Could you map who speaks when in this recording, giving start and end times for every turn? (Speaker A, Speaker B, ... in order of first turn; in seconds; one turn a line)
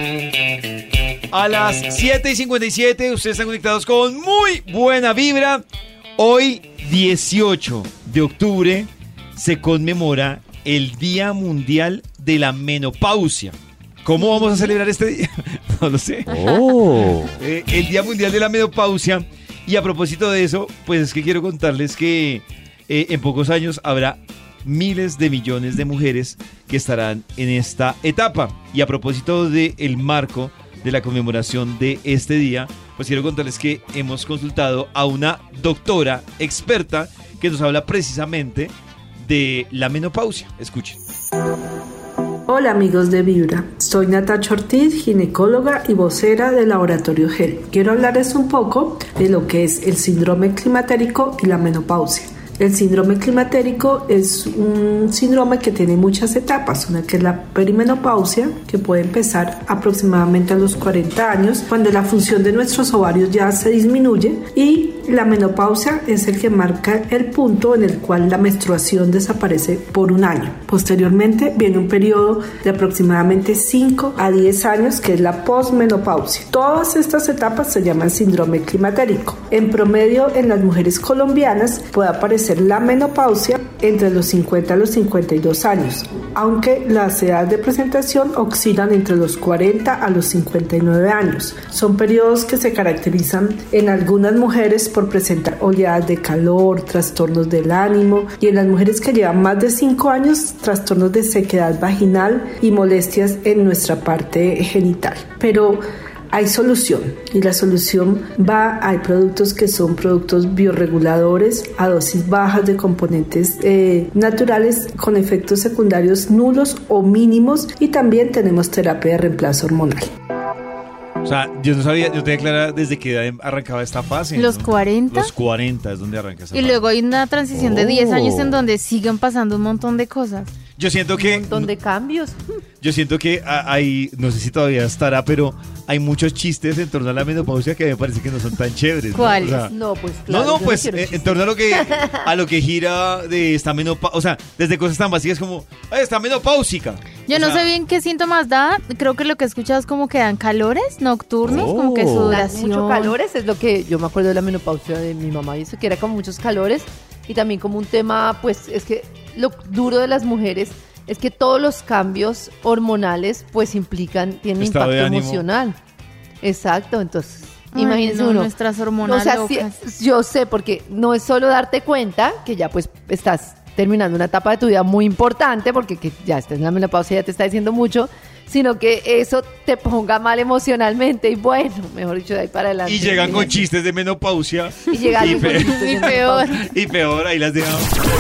Speaker A: 1.3-5.7
Speaker A: 6.2-16.4
Speaker B: 16.3-17.3
Speaker A: 17.4-38.7
Speaker A: 39.2-41.0
Speaker C: 42.5-120.0
Speaker A: 121.2-126.9
Speaker D: 124.3-125.3
Speaker D: 126.5-130.5
Speaker B: 127.5-128.6
Speaker A: 130.7-131.7
Speaker E: 131.2-132.4
Speaker A: 132.8-139.7
Speaker D: 139.1-139.7
Speaker E: 139.6-142.1
Speaker A: 140.3-147.8
Speaker D: 147.2-153.1
Speaker B: 151.4-152.3
Speaker E: 152.3-165.8
Speaker A: 164.6-165.4
Speaker E: 166.4-183.7
Speaker D: 167.7-169.8
Speaker A: 182.9-187.9
Speaker E: 184.9-186.6
Speaker D: 185.7-186.5